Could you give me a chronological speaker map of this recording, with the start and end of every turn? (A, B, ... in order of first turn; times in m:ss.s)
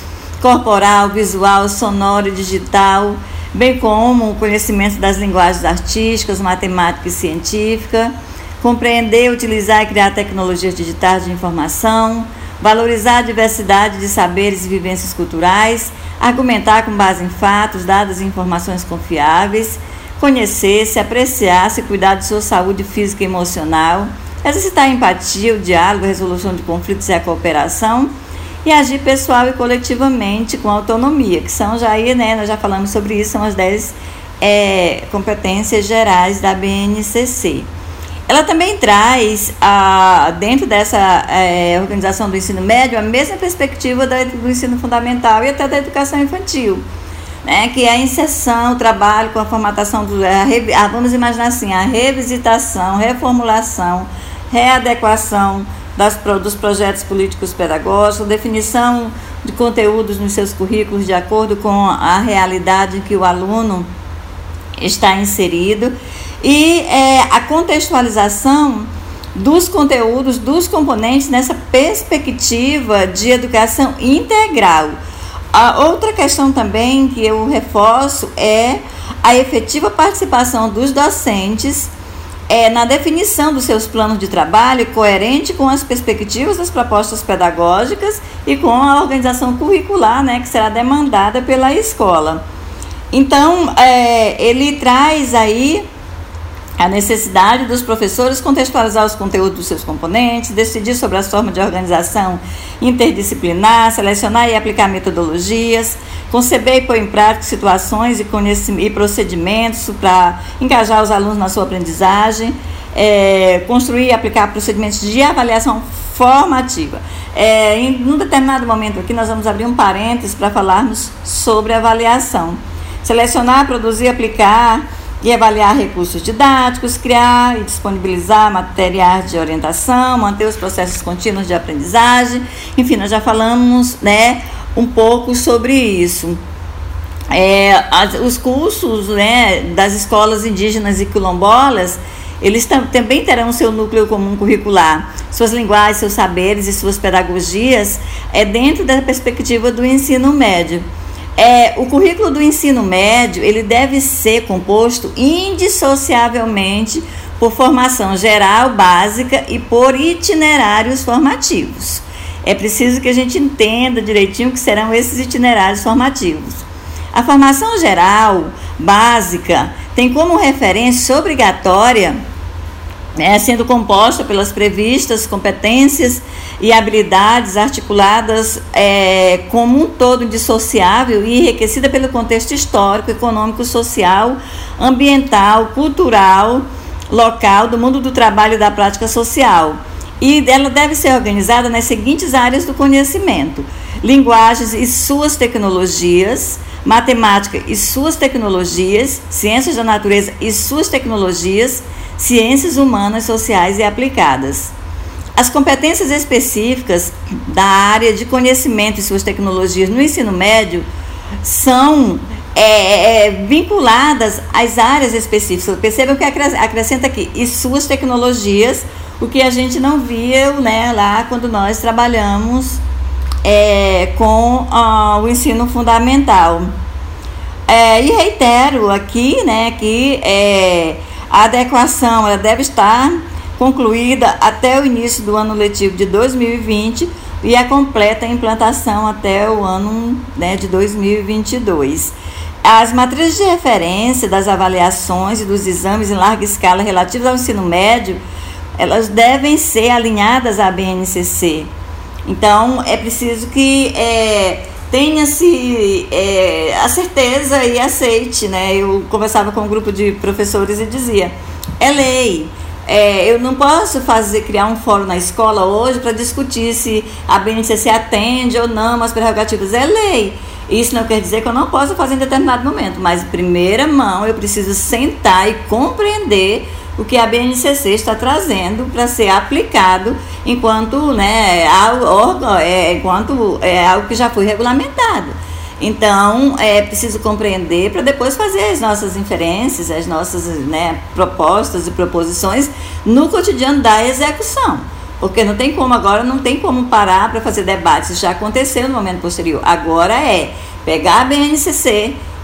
0:00.4-0:28.1 A
0:28.6-0:37.7 A
0:38.3-0:46.8 A
0:47.4-1:03.9 A
1:04.8-1:15.0 A
1:15.5-1:21.9 A
1:22.5-1:32.4 A
1:33.1-1:35.8 A
1:36.8-2:16.4 A
2:17.3-2:30.8 A
2:31.4-2:52.2 A
2:53.2-3:24.7 A
3:25.4-3:30.9 A
3:31.4-3:42.8 A
3:43.4-3:46.7 A
3:47.7-4:08.2 A
4:08.8-4:11.7 A
4:12.2-5:02.2 A